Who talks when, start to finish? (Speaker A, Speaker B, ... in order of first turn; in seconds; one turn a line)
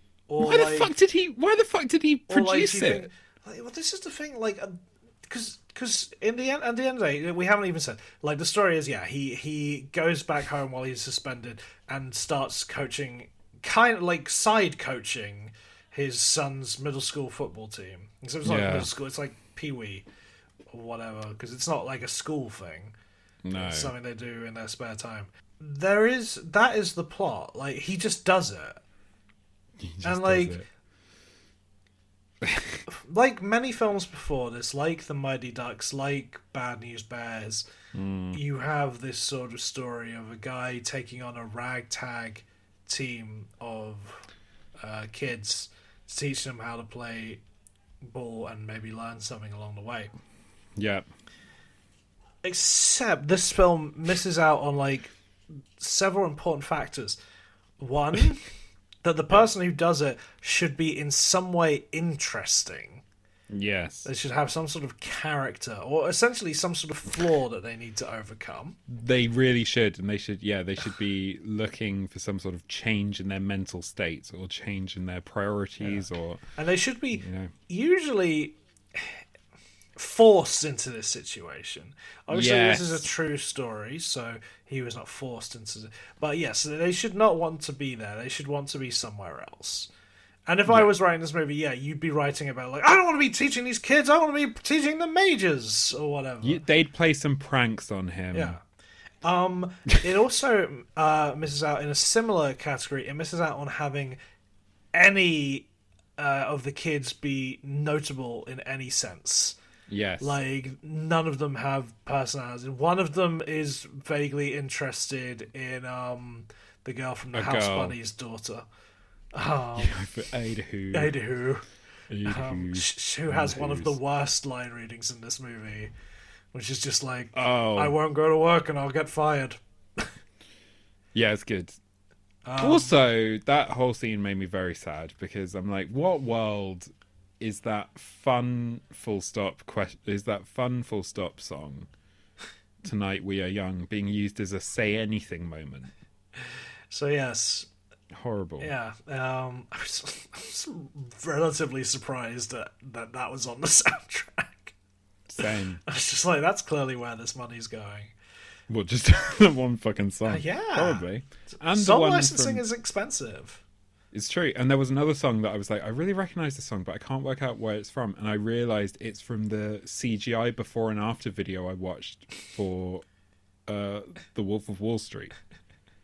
Speaker A: 0.3-0.9
Speaker B: 0.4-3.1
Speaker A: 2.3-20.1
Speaker B: 18.4-18.9
Speaker A: 20.7-22.9
Speaker B: 23.4-23.9
Speaker A: 23.5-28.8
Speaker B: 29.8-30.6
Speaker A: 30.0-30.6
Speaker B: 32.4-32.8
Speaker A: 32.9-37.6
Speaker B: 37.9-38.4
Speaker A: 38.3-44.3
Speaker A: 44.8-47.4
Speaker A: 48.0-50.1
Speaker B: 50.8-51.1
Speaker A: 52.4-57.2
Speaker A: 57.8-58.5
Speaker A: 59.0-63.0
Speaker B: 63.5-64.1
Speaker A: 64.0-68.8
Speaker B: 68.9-76.4
Speaker A: 76.5-79.2
Speaker B: 77.1-77.5
Speaker A: 80.0-89.9
Speaker B: 82.3-83.0
Speaker A: 90.5-96.6
Speaker B: 96.4-98.6
Speaker A: 98.3-98.6
Speaker A: 99.2-104.2
Speaker A: 104.9-109.6
Speaker B: 109.9-110.4
Speaker A: 110.2-118.7
Speaker B: 117.3-118.0
Speaker A: 119.3-120.0
Speaker B: 119.8-121.2
Speaker A: 120.9-121.6
Speaker B: 122.1-124.0
Speaker A: 122.2-125.9
Speaker A: 126.5-130.1
Speaker B: 127.3-128.0
Speaker B: 131.1-131.8
Speaker A: 132.4-132.9
Speaker B: 132.6-141.9
Speaker B: 142.8-145.9
Speaker A: 146.9-147.7
Speaker B: 148.1-148.7
Speaker A: 148.6-154.7
Speaker B: 155.3-155.8
Speaker A: 155.4-158.1
Speaker B: 158.7-162.7
Speaker A: 160.2-161.1
Speaker A: 161.7-163.6
Speaker B: 164.1-173.0
Speaker B: 173.7-175.3